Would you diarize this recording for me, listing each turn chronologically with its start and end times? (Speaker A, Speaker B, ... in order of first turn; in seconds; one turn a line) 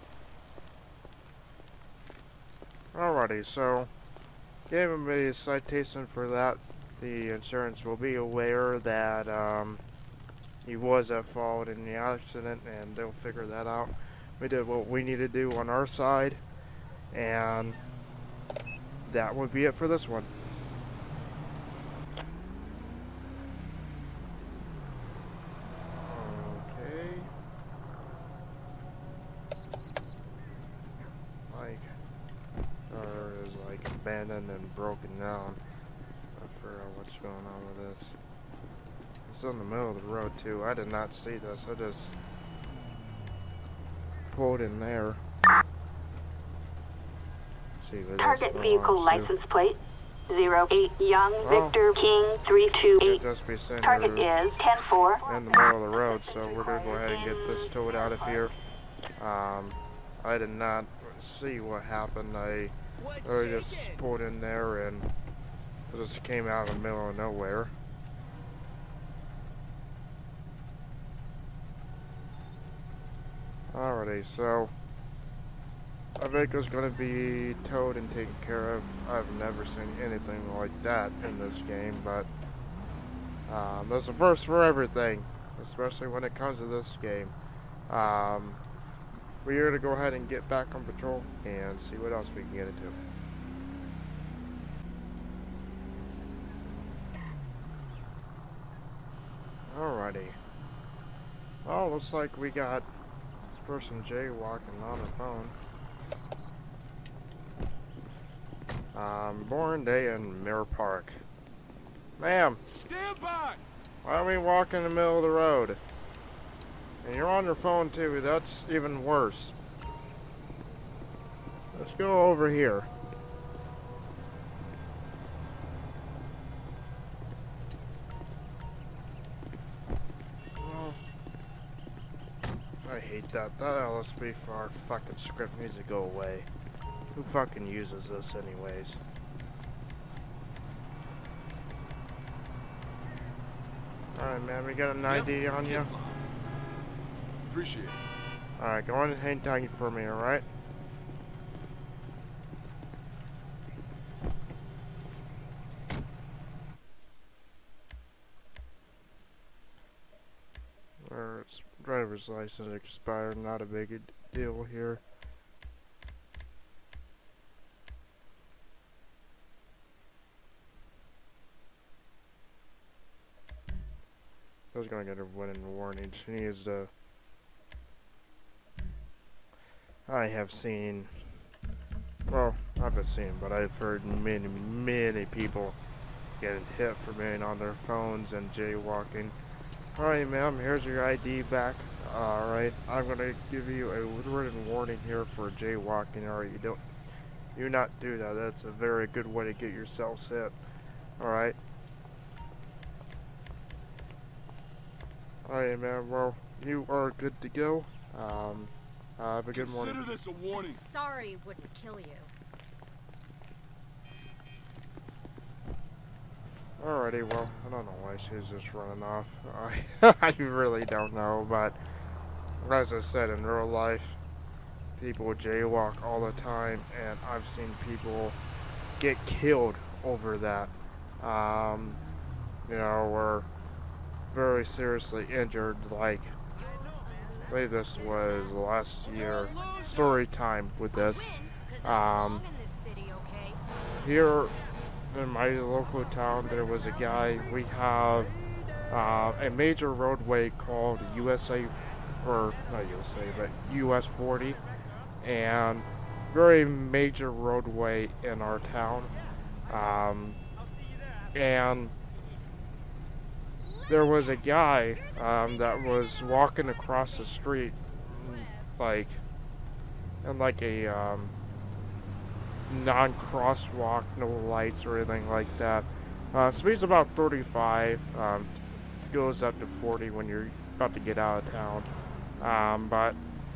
Speaker A: 2.9-3.9
Speaker A: 4.7-9.8
Speaker A: 10.6-16.4
Speaker A: 17.1-17.8
Speaker A: 19.1-20.3
Speaker A: 26.1-27.3
Speaker A: 31.5-31.9
Speaker A: 32.9-35.6
Speaker A: 36.4-38.2
Speaker A: 39.3-42.2
Speaker A: 44.3-45.2
Speaker A: 47.8-49.3
Speaker B: 48.2-53.2
Speaker A: 51.4-51.8
Speaker A: 53.0-54.3
Speaker B: 53.8-58.5
Speaker A: 55.2-58.5
Speaker A: 59.2-65.1
Speaker A: 65.9-67.7
Speaker A: 73.7-74.7
Speaker A: 76.2-82.3
Speaker A: 83.5-87.3
Speaker A: 87.9-88.6
Speaker A: 89.4-93.0
Speaker A: 99.7-100.4
Speaker A: 101.7-102.9
Speaker A: 103.5-105.5
Speaker A: 108.9-111.2
Speaker A: 112.2-112.6
Speaker C: 112.7-113.6
Speaker A: 114.0-115.8
Speaker A: 117.0-119.5
Speaker A: 121.7-122.9
Speaker A: 130.6-131.0
Speaker A: 132.8-136.5
Speaker A: 137.1-139.0
Speaker A: 144.2-145.9
Speaker C: 145.1-146.2
Speaker C: 147.5-148.0
Speaker A: 148.6-150.4
Speaker A: 161.0-165.0
Speaker A: 174.7-176.9
Speaker A: 180.1-181.3
Speaker A: 182.3-185.8
Speaker A: 186.4-189.3
Speaker A: 189.9-196.8
Speaker A: 197.6-200.6
Speaker A: 201.2-201.6
Speaker A: 205.4-210.1
Speaker C: 209.5-210.8
Speaker D: 210.5-212.3
Speaker A: 216.8-221.8
Speaker A: 222.6-224.2
Speaker A: 225.0-228.4
Speaker A: 229.0-232.0
Speaker A: 232.7-233.5
Speaker A: 234.3-236.3
Speaker D: 236.6-238.6
Speaker A: 237.5-241.3
Speaker C: 239.1-240.2
Speaker D: 239.4-239.8
Speaker D: 240.9-243.6
Speaker A: 241.8-242.4
Speaker A: 244.0-244.5
Speaker A: 245.1-248.3
Speaker A: 248.9-254.6
Speaker A: 255.2-259.1
Speaker A: 259.7-260.4
Speaker A: 261.3-261.9
Speaker D: 263.6-266.9
Speaker A: 263.9-269.2
Speaker D: 268.1-268.6
Speaker A: 270.2-271.4
Speaker A: 272.7-278.5
Speaker A: 279.1-283.2